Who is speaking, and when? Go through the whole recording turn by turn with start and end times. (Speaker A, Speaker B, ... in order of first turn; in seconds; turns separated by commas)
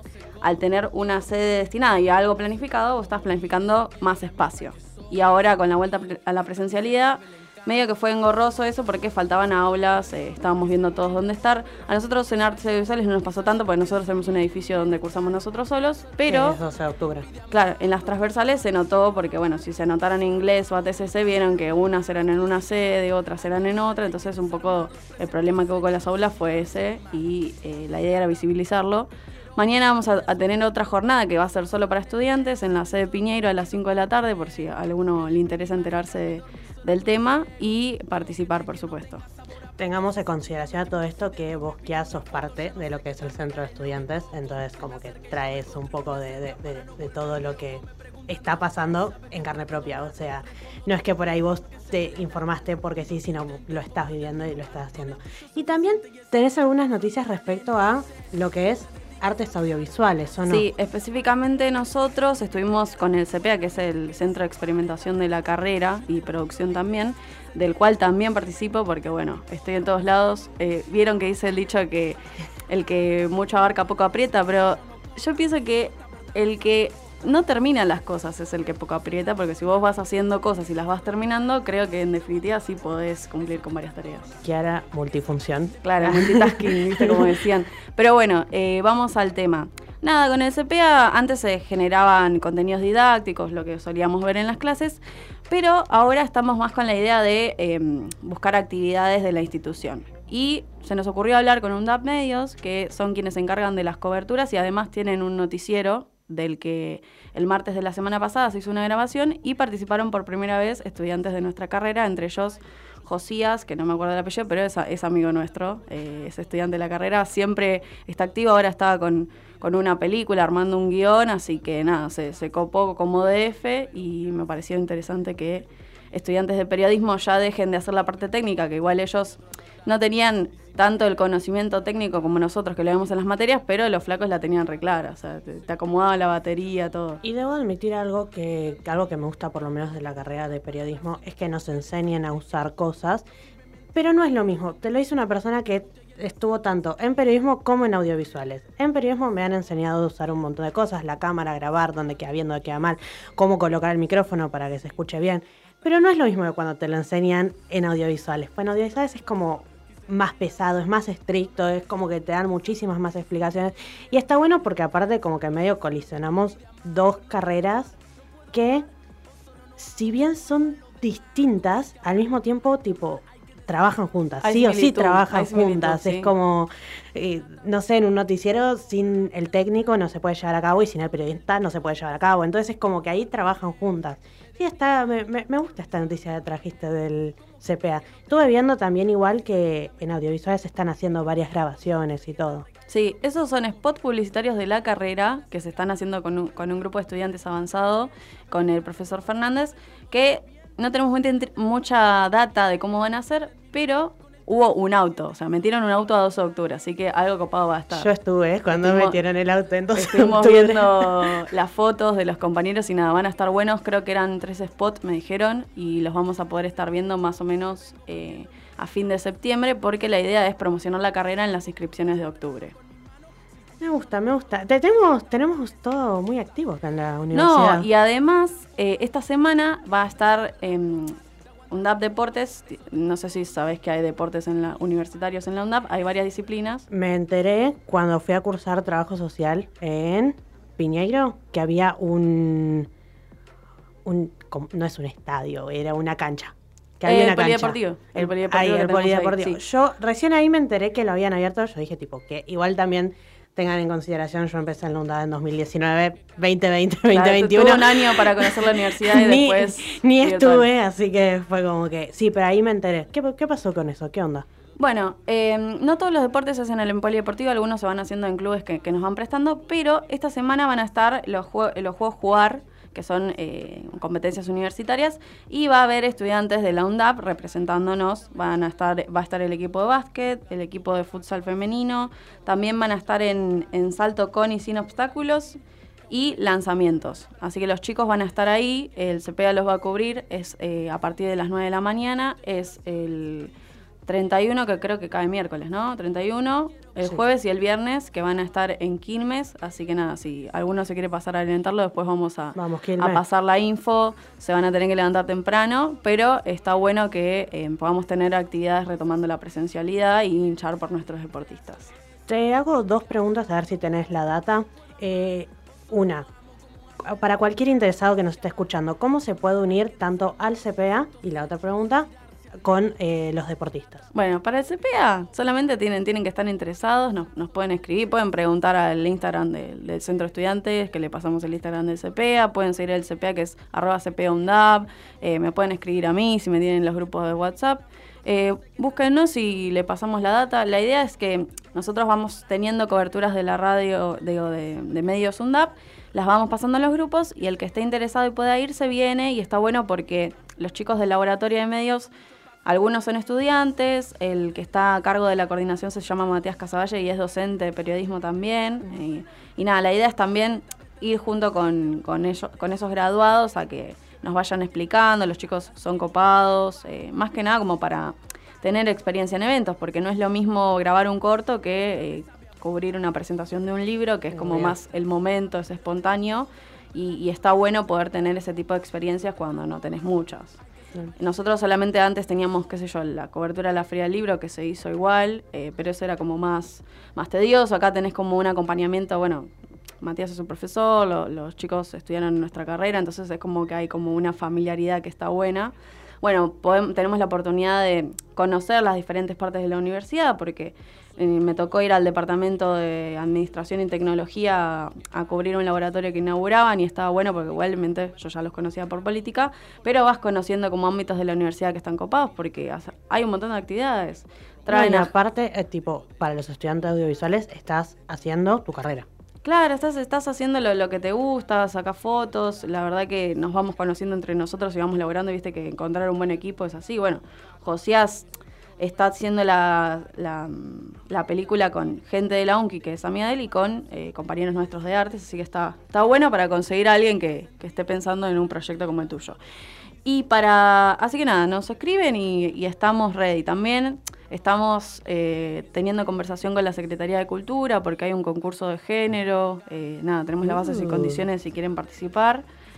Speaker A: 0.4-16.6, Speaker B: 16.3-17.3, Speaker A: 17.5-39.2, Speaker B: 39.8-60.7, Speaker A: 60.5-84.3, Speaker B: 84.4-87.3, Speaker A: 85.8-137.2, Speaker B: 137.2-143.3, Speaker B: 143.9-168.0, Speaker B: 168.5-168.8, Speaker B: 169.8-192.7, Speaker A: 174.4-176.3, Speaker A: 192.9-208.1, Speaker B: 207.9-211.4, Speaker A: 208.8-209.2, Speaker A: 209.9-222.8, Speaker B: 223.8-227.9, Speaker A: 227.3-231.2, Speaker A: 231.7-236.8, Speaker B: 236.9-242.9, Speaker B: 244.1-264.5, Speaker A: 247.1-249.6, Speaker A: 257.1-260.7, Speaker A: 264.8-285.6, Speaker A: 286.1-293.5, Speaker A: 294.1-311.9, Speaker B: 302.6-303.2, Speaker B: 312.3-316.3, Speaker B: 317.0-322.1, Speaker B: 322.6-324.0, Speaker A: 324.1-352.1, Speaker A: 352.6-380.6, Speaker B: 374.3-374.8, Speaker A: 381.2-389.5, Speaker A: 390.0-415.1, Speaker B: 414.7-419.1, Speaker A: 419.4-428.3, Speaker A: 428.8-439.4, Speaker A: 440.1-452.4, Speaker B: 450.4-451.3